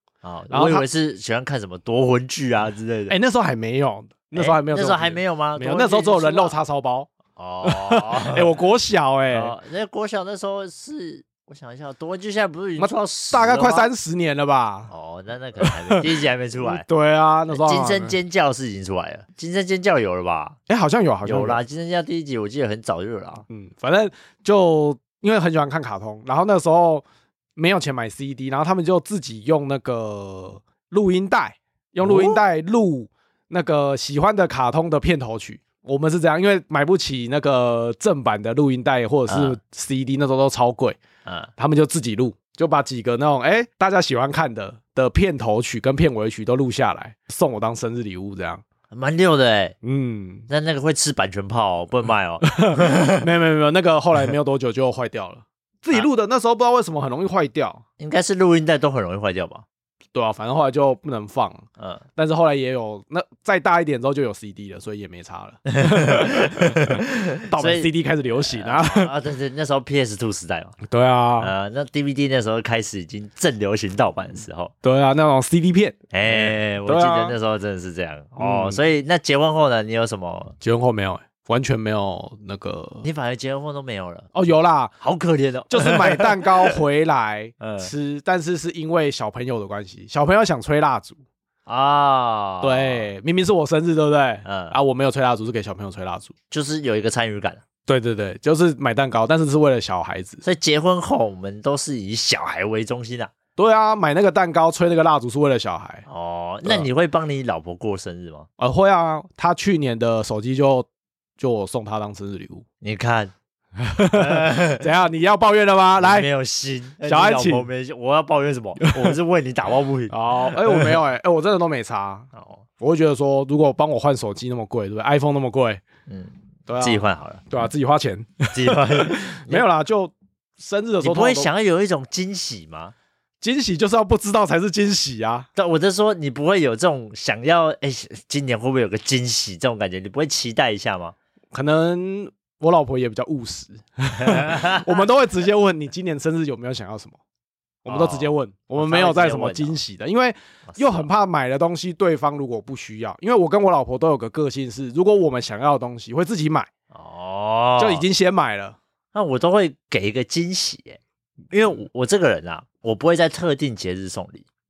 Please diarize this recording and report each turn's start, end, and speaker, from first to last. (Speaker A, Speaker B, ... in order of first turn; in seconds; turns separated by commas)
Speaker A: 0.2-3.2, Speaker B: 0.5-0.8, Speaker B: 3.1-7.1, Speaker A: 4.3-6.5, Speaker A: 7.4-8.5, Speaker B: 7.6-9.5, Speaker A: 9.3-13.9, Speaker B: 12.8-14.9, Speaker A: 14.9-16.9, Speaker B: 15.6-16.1, Speaker B: 16.6-18.2, Speaker A: 17.5-20.6, Speaker B: 20.7-21.6, Speaker A: 21.2-23.4, Speaker B: 23.5-27.1, Speaker B: 27.6-41.0, Speaker A: 32.0-32.4, Speaker A: 39.3-39.6, Speaker A: 41.3-41.5, Speaker B: 41.6-48.6, Speaker A: 48.9-49.8, Speaker B: 49.8-50.5, Speaker A: 50.5-53.2, Speaker B: 52.4-57.8, Speaker A: 58.0-59.6, Speaker B: 60.1-61.6, Speaker A: 61.8-62.0, Speaker B: 62.2-69.1, Speaker A: 65.7-70.8, Speaker B: 70.8-71.5, Speaker A: 71.4-74.7, Speaker B: 74.8-77.3, Speaker A: 76.1-80.5, Speaker B: 78.4-78.8, Speaker B: 80.6-83.1, Speaker A: 83.0-84.3, Speaker B: 84.3-85.0, Speaker A: 85.0-86.8, Speaker B: 85.7-91.2, Speaker A: 87.6-87.9, Speaker A: 91.7-93.1, Speaker B: 92.6-96.3, Speaker A: 94.5-94.8, Speaker A: 96.5-97.6, Speaker B: 97.9-100.4, Speaker A: 100.4-103.3, Speaker B: 103.6-106.0, Speaker A: 106.1-108.5, Speaker B: 108.6-110.9, Speaker B: 111.4-112.7, Speaker A: 112.8-113.3, Speaker B: 113.8-116.3, Speaker A: 114.1-114.9, Speaker A: 116.0-121.0, Speaker B: 117.0-117.7, Speaker B: 118.8-119.2, Speaker B: 120.1-125.8, Speaker A: 122.3-122.7, Speaker A: 126.1-127.5, Speaker B: 126.7-131.5, Speaker A: 128.5-129.6, Speaker A: 131.0-132.9, Speaker B: 133.4-135.5, Speaker A: 135.6-141.2, Speaker B: 141.5-147.2, Speaker A: 144.2-144.9, Speaker B: 147.8-156.7, Speaker A: 147.9-149.8, Speaker A: 150.7-151.1, Speaker A: 156.9-158.1, Speaker B: 157.8-158.8, Speaker A: 159.1-161.0, Speaker A: 161.5-164.5